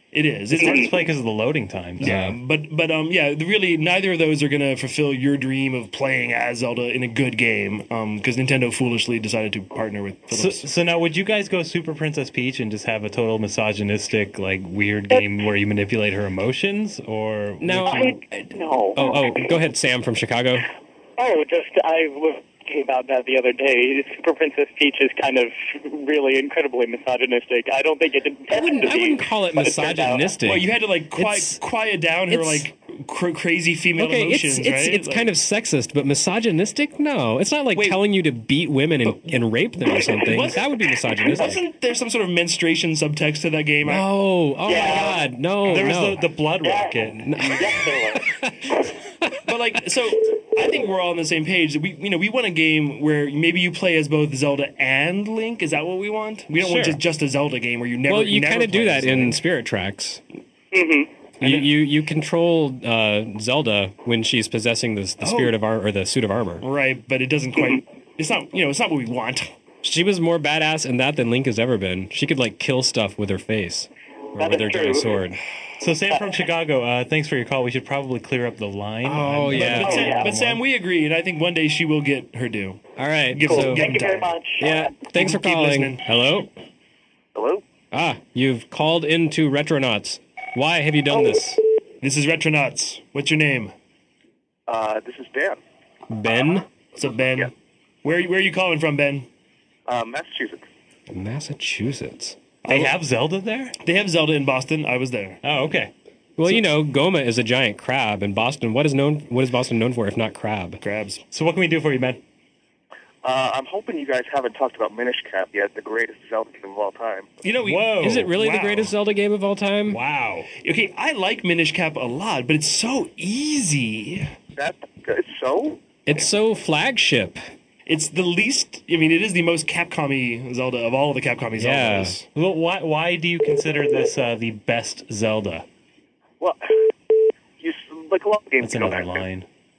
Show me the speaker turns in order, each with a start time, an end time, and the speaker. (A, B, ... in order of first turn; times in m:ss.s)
0:00.1-0:01.0 A
0:00.6-0:00.9 B
0:00.7-0:02.1 C
0:02.0-0:02.4 D
0:02.0-0:10.7 A
0:10.3-0:18.2 C
0:17.6-0:20.7 D
0:17.9-0:19.5 B
0:21.2-0:30.3 B
0:28.5-0:31.6 D
0:30.4-0:35.3 A
0:32.3-0:32.7 D
0:34.0-0:41.6 D
0:37.7-0:38.0 A
0:39.0-0:44.1 A
0:43.8-0:46.3 D
0:44.6-0:45.3 B
0:45.6-0:47.2 C
0:46.6-0:48.2 B
0:47.2-0:49.4 D
0:49.5-0:59.4 A
0:56.6-0:57.0 C
0:58.1-1:00.2 D
1:00.7-1:01.1 B
1:01.4-1:06.7 D
1:01.4-1:01.7 A
1:05.2-1:05.6 A
1:06.6-1:09.5 A
1:09.8-1:15.4 D
1:14.4-1:15.1 B
1:15.8-1:20.6 C
1:19.0-1:20.1 D
1:19.5-1:22.8 A
1:19.8-1:20.3 B
1:23.0-1:23.9 D
1:23.3-1:24.3 A
1:23.4-1:24.7 B
1:24.6-1:26.5 D
1:25.0-1:26.0 A
1:27.4-1:27.6 E
1:27.9-1:31.6 D
1:32.0-1:33.7 A
1:34.7-1:35.6 E
1:36.1-1:36.7 D
1:37.0-1:37.5 A
1:38.0-1:39.3 A
1:39.9-1:40.7 E
1:41.1-1:42.4 D
1:42.6-1:42.9 A
1:42.7-1:43.8 C
1:43.8-1:45.4 A
1:45.4-1:45.9 C
1:46.4-1:50.8 D
1:50.8-1:51.2 A
1:51.3-1:52.2 C
1:53.2-1:57.3 E
1:57.4-1:58.9 A
1:57.6-1:58.3 C
1:58.0-2:00.0 D
1:59.9-2:00.5 C
2:00.6-2:04.3 A
2:04.6-2:05.8 E
2:06.1-2:07.4 D
2:07.9-2:12.3 A
2:11.6-2:12.2 D
2:12.3-2:15.7 C
2:16.4-2:16.9 E
2:17.6-2:19.2 E
2:18.6-2:19.5 C